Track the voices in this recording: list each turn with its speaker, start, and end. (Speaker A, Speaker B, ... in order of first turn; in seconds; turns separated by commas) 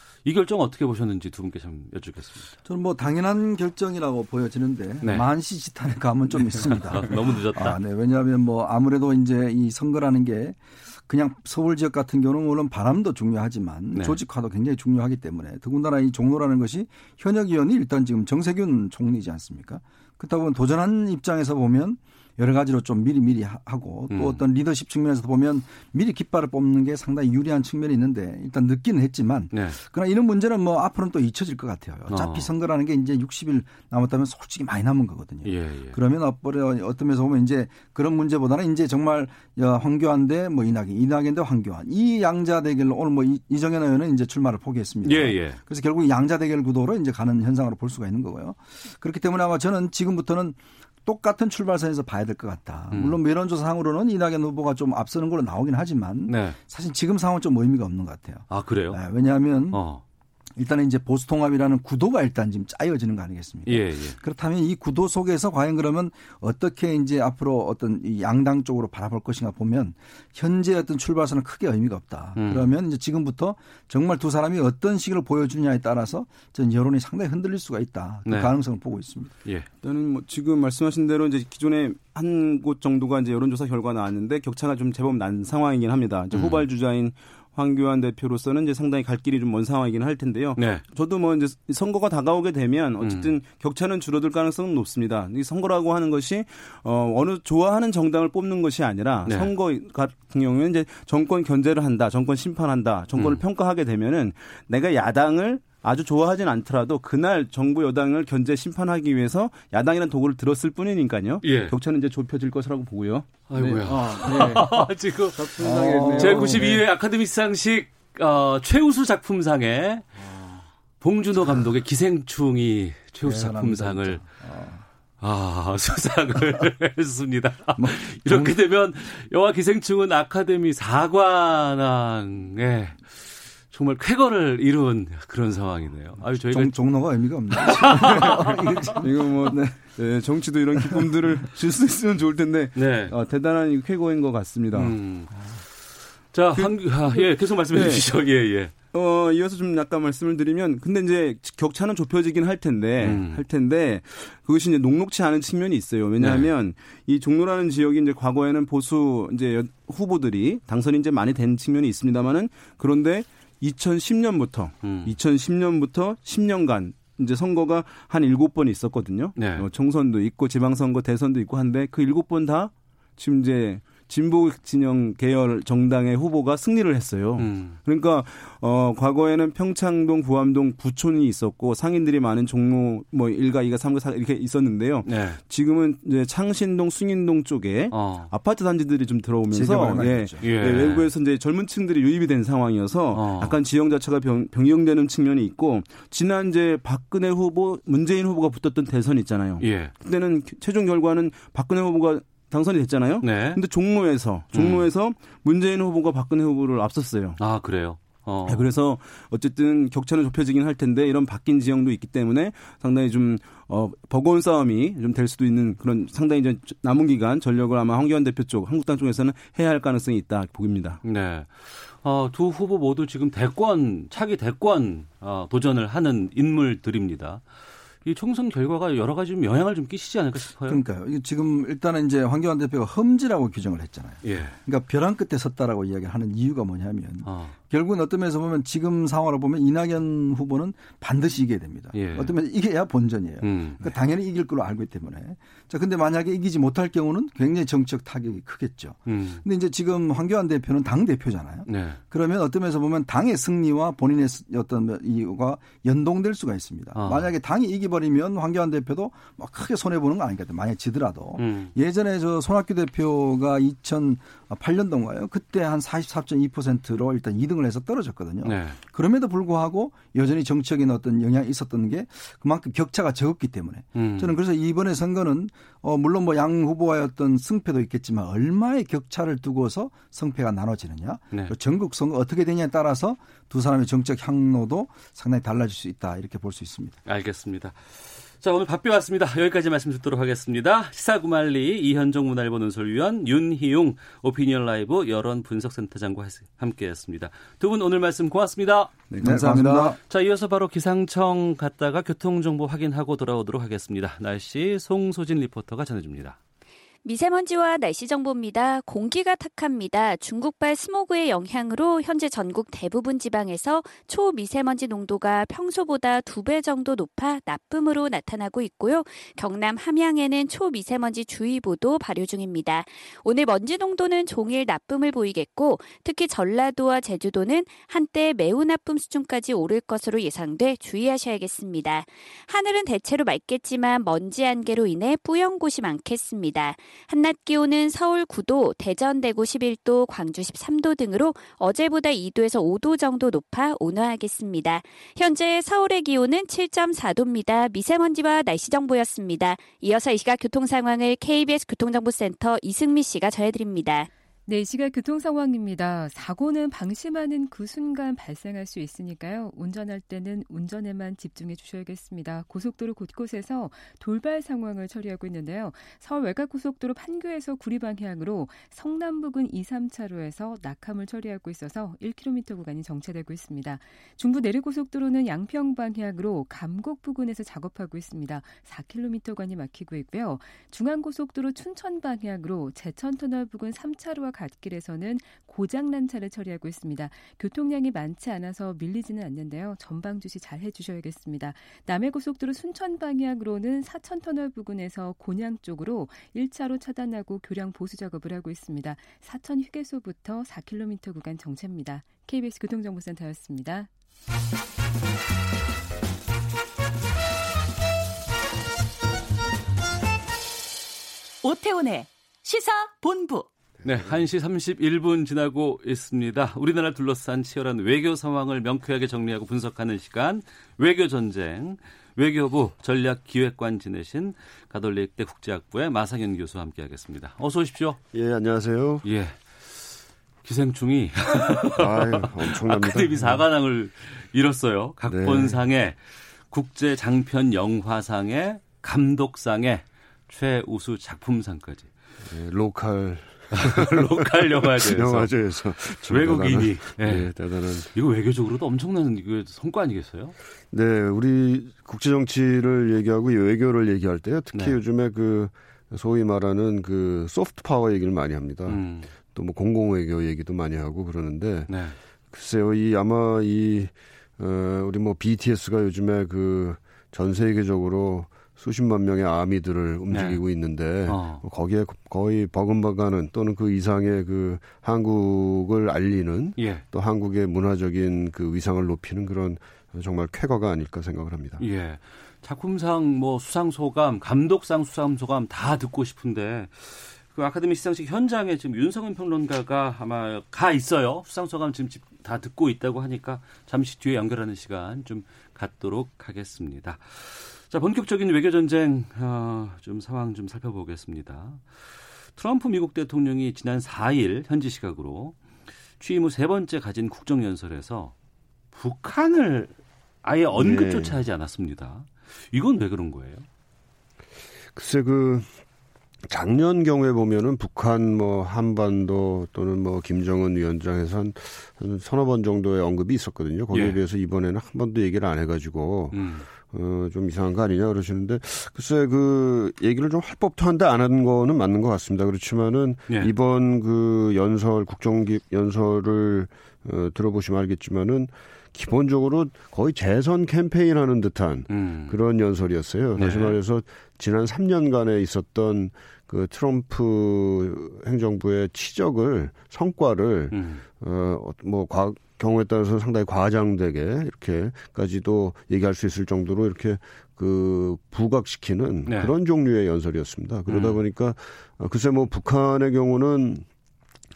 Speaker A: 0.2-2.5, Speaker B: 2.6-59.8, Speaker A: 5.0-5.3, Speaker A: 6.5-7.8, Speaker A: 13.9-14.2, Speaker A: 24.1-24.4, Speaker A: 29.5-29.8, Speaker A: 32.1-32.5, Speaker A: 35.4-36.0, Speaker A: 45.0-45.6, Speaker A: 52.9-53.2, Speaker A: 56.3-56.6, Speaker A: 58.5-59.0, Speaker A: 59.7-60.0, Speaker B: 60.6-79.3, Speaker A: 63.6-64.2, Speaker A: 72.3-72.7, Speaker A: 78.2-78.5, Speaker C: 79.8-114.7, Speaker A: 86.3-86.7, Speaker A: 90.5-90.8, Speaker A: 93.0-93.3, Speaker A: 99.2-99.5, Speaker A: 103.1-103.4, Speaker A: 111.4-111.7, Speaker A: 113.5-120.1, Speaker B: 113.8-114.7, Speaker B: 115.5-116.8, Speaker C: 115.6-116.7, Speaker A: 121.0-124.2, Speaker B: 123.2-124.8, Speaker A: 125.2-136.8, Speaker B: 127.8-128.6, Speaker B: 136.2-139.7, Speaker A: 137.5-139.0, Speaker C: 139.0-144.9, Speaker A: 142.7-143.1, Speaker A: 144.7-148.7, Speaker C: 146.6-148.1, Speaker C: 148.9-207.4, Speaker A: 153.0-153.4, Speaker A: 156.2-156.5, Speaker A: 164.8-165.1, Speaker A: 169.3-169.7, Speaker A: 177.4-177.8, Speaker A: 185.0-185.4, Speaker A: 187.9-188.3, Speaker B: 189.5-190.4, Speaker A: 190.4-191.1, Speaker A: 193.1-193.6, Speaker A: 199.6-199.9, Speaker A: 203.2-203.6, Speaker A: 204.5-204.9, Speaker A: 207.4-208.7, Speaker C: 208.5-221.0, Speaker A: 221.0-227.4, Speaker A: 228.0-230.8, Speaker B: 230.7-287.0, Speaker A: 234.2-234.6, Speaker A: 237.2-237.5, Speaker A: 241.9-242.4, Speaker A: 243.4-243.9, Speaker A: 249.1-249.4, Speaker A: 251.7-252.0, Speaker A: 256.9-257.3, Speaker A: 261.4-261.7, Speaker A: 268.4-268.8, Speaker A: 273.9-274.4, Speaker A: 287.1-299.1, Speaker C: 299.1-299.9, Speaker B: 299.2-300.0, Speaker A: 300.0-306.4, Speaker D: 307.0-354.1, Speaker E: 354.4-403.9, Speaker F: 411.4-413.4, Speaker A: 413.8-428.0, Speaker G: 428.1-429.0, Speaker A: 429.0-441.9, Speaker G: 431.7-433.4, Speaker G: 435.0-435.6, Speaker G: 442.2-447.9, Speaker A: 443.5-445.3, Speaker A: 445.8-450.3, Speaker G: 450.7-461.7, Speaker A: 458.7-459.1, Speaker A: 461.7-462.0, Speaker G: 462.3-481.6, Speaker A: 470.1-470.4, Speaker A: 471.1-471.4, Speaker A: 476.6-476.8, Speaker A: 481.6-505.4, Speaker A: 506.0-508.1, Speaker A: 508.7-513.5, Speaker G: 510.5-511.2, Speaker G: 514.7-515.5, Speaker G: 516.3-563.6, Speaker A: 523.7-524.0, Speaker A: 526.1-526.5, Speaker A: 541.7-542.2, Speaker A: 543.1-543.6, Speaker A: 550.5-550.8, Speaker A: 559.1-559.3, Speaker A: 560.7-561.0